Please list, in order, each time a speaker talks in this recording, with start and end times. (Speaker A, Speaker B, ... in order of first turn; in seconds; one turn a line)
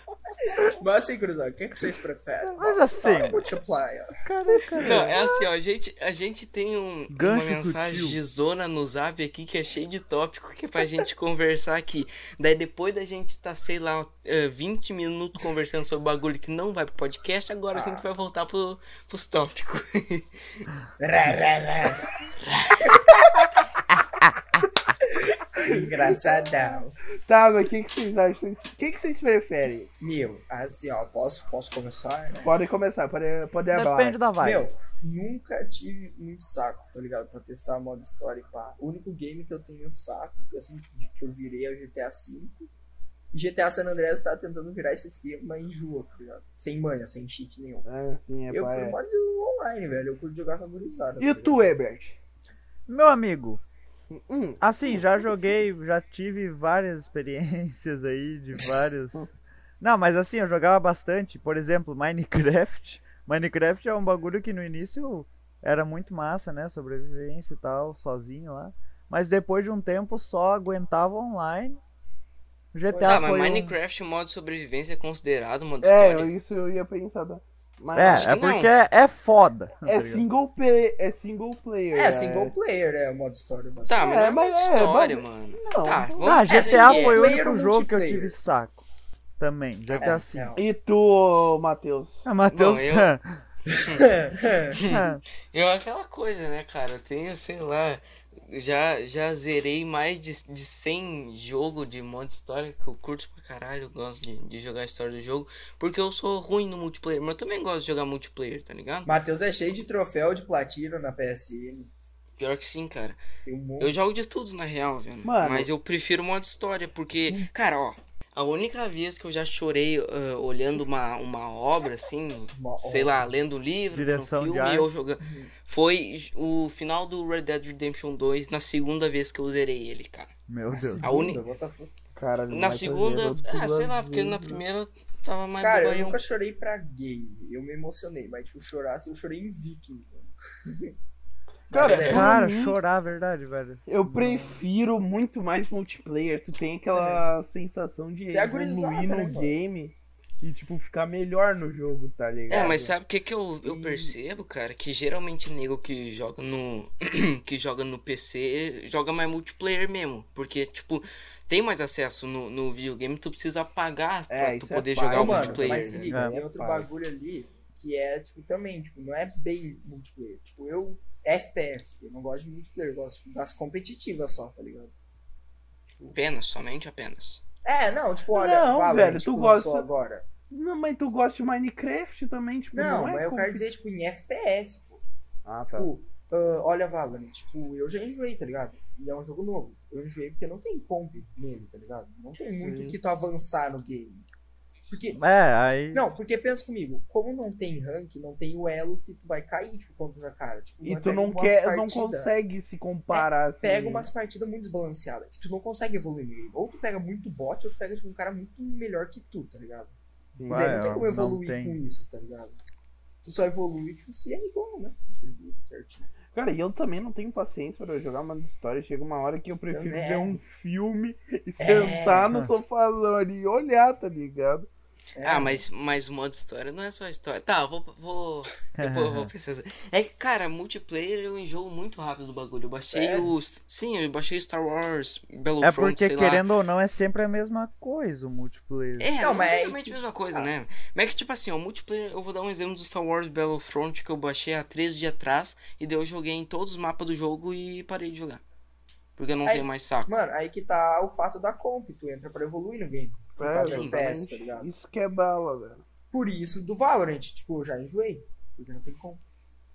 Speaker A: 0.6-4.1
Speaker B: 2.5-3.4
Speaker B: 4.2-5.0
Speaker C: 4.7-5.5
Speaker D: 4.8-20.6
Speaker B: 7.1-8.2
Speaker A: 17.7-18.0
Speaker A: 21.0-22.1
Speaker D: 22.4-22.9
Speaker A: 25.6-26.9
Speaker C: 25.6-26.3
Speaker C: 27.3-29.9
Speaker A: 30.0-32.5
Speaker C: 32.4-34.2
Speaker B: 33.7-34.7
Speaker A: 34.4-42.7
Speaker A: 43.3-47.8
Speaker C: 47.8-49.0
Speaker A: 48.5-51.7
Speaker C: 51.2-52.2
Speaker B: 52.9-53.6
Speaker C: 54.1-55.0
Speaker B: 54.6-71.8
Speaker B: 72.7-73.7
Speaker A: 72.9-73.3
Speaker D: 73.0-76.3
Speaker C: 75.8-78.3
Speaker B: 77.9-80.2
Speaker D: 78.0-78.7
Speaker C: 79.8-82.5
Speaker A: 81.9-84.2
Speaker D: 83.9-87.3
Speaker C: 84.0-86.4
Speaker B: 86.2-88.8
Speaker A: 86.5-88.4
Speaker B: 89.4-90.5
Speaker D: 89.9-90.2
Speaker A: 89.9-90.7
Speaker C: 90.5-92.2
Speaker B: 92.2-93.2
Speaker D: 92.5-93.1
Speaker A: 93.7-94.8
Speaker D: 94.7-109.1
Speaker B: 94.9-95.2
Speaker A: 109.0-111.9
Speaker D: 112.4-113.2
Speaker A: 113.4-114.0
Speaker D: 113.8-130.3
Speaker C: 115.2-115.7
Speaker A: 122.5-123.3
Speaker B: 123.9-124.9
Speaker A: 125.2-125.5
Speaker B: 130.5-131.1
Speaker A: 130.7-131.9
Speaker D: 131.0-131.4
Speaker C: 132.1-134.6
Speaker D: 132.5-136.2
Speaker A: 135.6-140.9
Speaker A: 141.7-142.4
Speaker C: 141.7-142.8
Speaker D: 141.8-142.2
Speaker B: 141.8-144.6
Speaker C: 143.9-152.9
Speaker A: 146.9-147.2
Speaker A: 148.3-149.5
Speaker D: 152.5-166.1
Speaker C: 153.6-154.1
Speaker C: 164.3-166.9
Speaker A: 165.1-174.9
Speaker D: 176.1-177.4
Speaker A: 177.6-180.3
Speaker C: 178.3-179.8
Speaker C: 180.5-183.6
Speaker A: 182.7-185.0
Speaker C: 185.4-185.9
Speaker A: 185.7-194.3
Speaker C: 192.6-193.0
Speaker A: 194.9-195.2
Speaker B: 195.1-196.0
Speaker A: 195.9-202.3
Speaker C: 200.8-204.1
Speaker A: 203.1-212.6
Speaker C: 210.3-210.9
Speaker B: 210.5-211.8
Speaker A: 213.2-216.1
Speaker C: 216.3-224.7
Speaker A: 219.7-220.4
Speaker A: 221.6-222.3
Speaker A: 225.2-225.6
Speaker D: 225.2-236.4
Speaker B: 228.8-229.3
Speaker A: 232.9-233.3
Speaker B: 235.6-239.1
Speaker D: 239.0-248.4
Speaker A: 239.2-240.5
Speaker D: 249.2-250.1
Speaker A: 249.4-254.7
Speaker C: 253.4-255.8
Speaker D: 253.5-254.0
Speaker A: 256.1-259.2